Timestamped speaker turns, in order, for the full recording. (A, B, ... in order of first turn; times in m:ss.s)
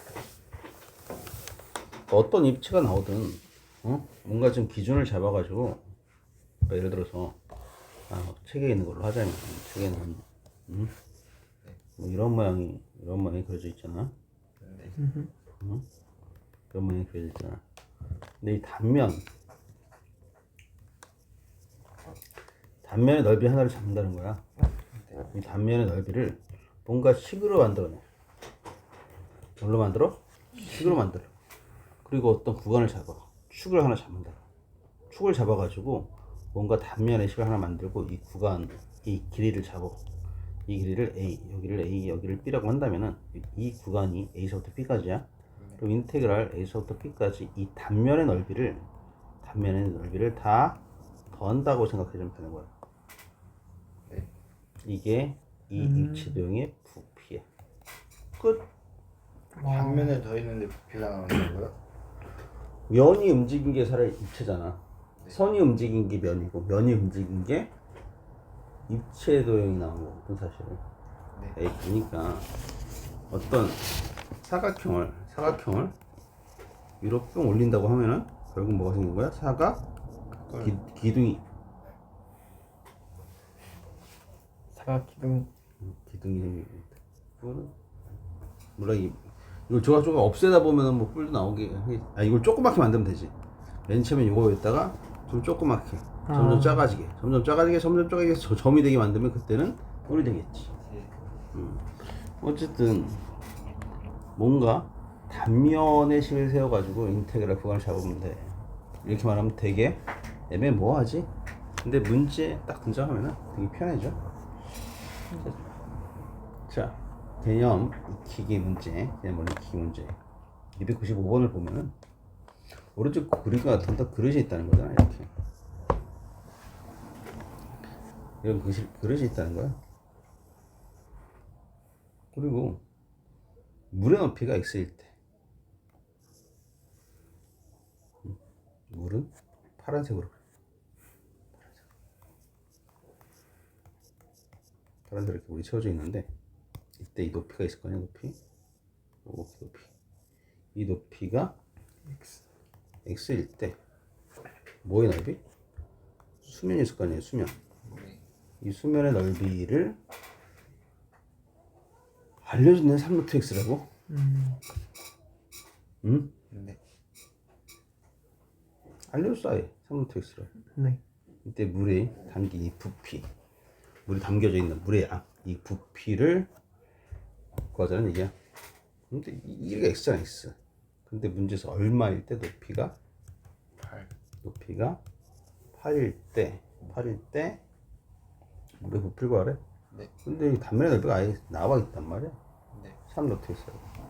0:02.1-0:05.8 A
0:06.7-0:07.4 A
0:08.1-0:10.9 A
0:12.0-0:14.1 A
0:14.6-0:15.0 B
0:15.0-0:15.3 C
0:15.6-0:15.8 A
0:16.7-0:17.6 A
0:18.4-0:19.2 A
0:22.8-0:24.4 A
0:24.9-0:25.2 B
0:25.3-0:28.0 A
0:29.6-0:31.3 A
0:32.0-0:34.4 A
0:35.1-0:40.0 A
0:40.7-0:45.3 A
0:45.8-0:48.9 A
0:49.4-0:50.8 A
0:51.3-0:52.7 A
0:54.8-0:57.4 A
0:55.8-0:56.4 C
0:58.4-0:58.6 A
0:59.6-1:00.2 C
0:59.6-1:01.7 B
1:02.9-1:07.7 A
1:08.9-1:10.8 A
1:11.5-1:12.5 A
1:13.3-1:13.8 A
1:14.4-1:16.0 A
1:17.0-1:19.8 A
1:20.5-1:20.8 B
1:20.6-1:21.4 A
1:24.7-1:25.5 C
1:25.8-1:27.7 A
1:28.8-1:33.3 A
1:33.9-1:40.7 A
1:36.3-1:36.9 C
1:40.8-1:41.1 B
1:41.5-1:43.3 A
1:44.4-1:51.3 A
1:51.8-1:54.2 A
1:56.7-2:00.2 A
2:00.8-2:01.9 A
2:03.0-2:05.3 A
2:08.4-2:09.8 A
2:12.3-2:12.8 A
2:13.9-2:15.1 A
2:18.9-2:20.4 A
2:25.1-2:26.3 A
2:27.0-2:28.4 A
2:29.2-2:29.9 A
2:30.8-2:31.6 A
2:32.1-2:32.4 C
2:33.0-2:33.8 A
2:34.8-2:35.4 A
2:36.4-2:37.6 A
2:37.8-2:38.2 B
2:38.6-2:40.0 A
2:42.4-2:43.9 A
2:44.1-2:44.6 C
2:46.0-2:46.3 A
2:46.5-2:46.8 B
2:49.1-2:50.5 A
2:50.8-2:51.0 C
2:51.4-2:53.3 A
2:54.1-2:56.5 A
2:57.7-2:58.3 A
2:59.1-3:00.6 A
3:01.1-3:03.0 A
3:03.8-3:04.1 B
3:04.4-3:05.0 A
3:05.7-3:07.6 A
3:08.8-3:09.6 A
3:10.2-3:12.4 A
3:12.7-3:13.0 B
3:13.1-3:13.8 A